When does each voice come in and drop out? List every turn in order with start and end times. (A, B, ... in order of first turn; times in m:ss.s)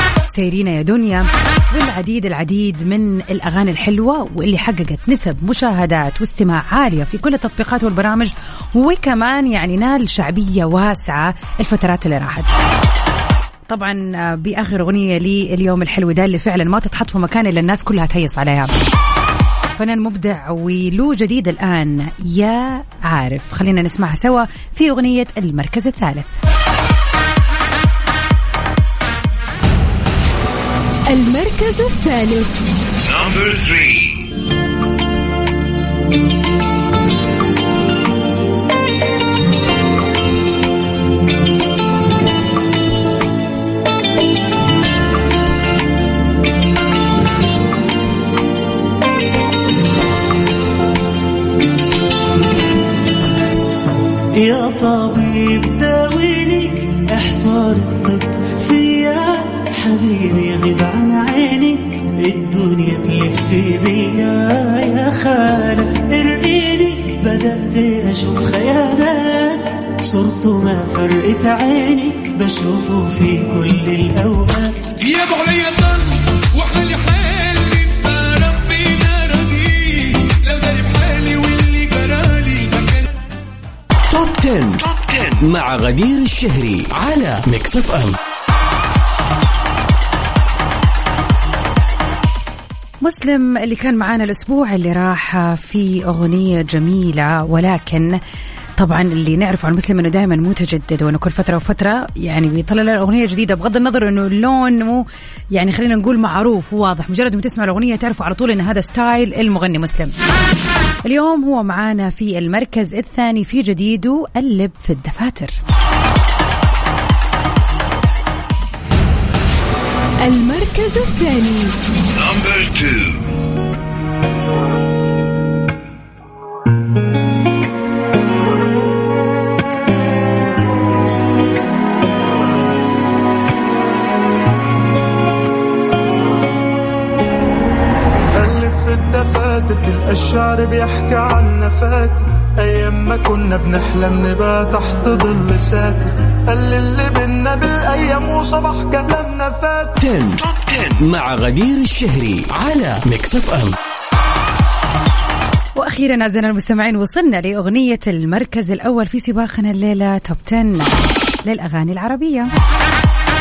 0:00.3-0:12.5 A
0:13.7-0:18.7 A
0:19.8-0:26.4 A
0:31.1-0:32.7 B
0:33.0-0:34.2 C
0:54.4-1:15.0 D
1:15.2-1:16.2 E
1:16.8-1:22.8 E
1:24.1-1:28.2 F
1:33.0-1:38.2 A
1:38.8-1:50.1 A
1:51.0-1:55.6 A
2:00.2-2:01.7 B
2:02.1-2:03.2 C
2:18.3-2:30.0 G
2:30.0-2:33.8 F
2:35.8-2:42.5 A